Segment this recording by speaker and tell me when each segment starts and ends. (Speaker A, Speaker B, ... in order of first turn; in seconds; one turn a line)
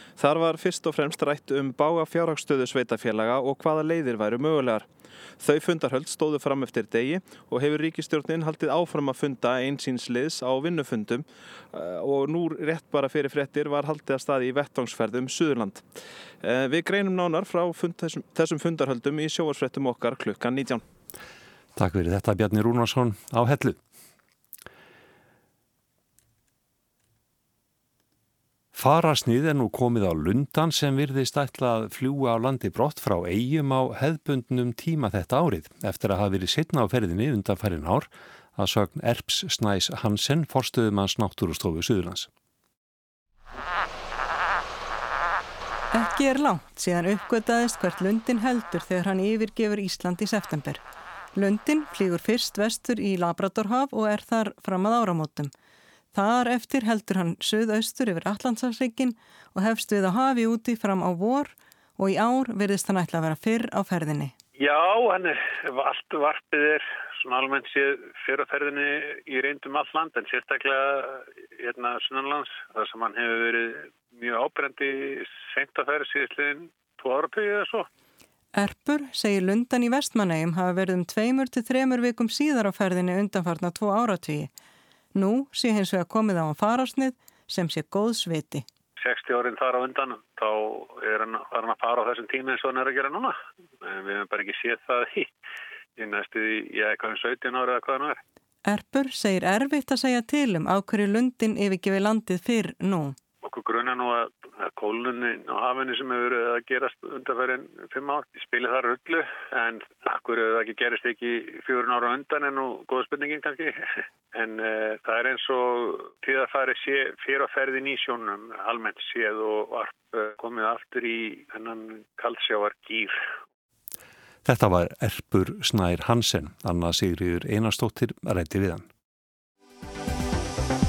Speaker A: 0.2-4.9
Speaker A: 5.4-15.8
Speaker A: 16.4-20.8
Speaker B: 21.8-23.8
Speaker B: 28.7-42.3
Speaker C: 45.9-50.8
Speaker C: 51.3-55.5
Speaker C: 56.1-64.3
Speaker D: 64.6-77.9
Speaker C: 78.5-84.5
Speaker C: 85.1-88.6
Speaker D: 89.0-95.3
Speaker D: 96.0-98.2
Speaker C: 98.7-103.2
Speaker D: 103.4-123.1
Speaker B: 124.4-128.9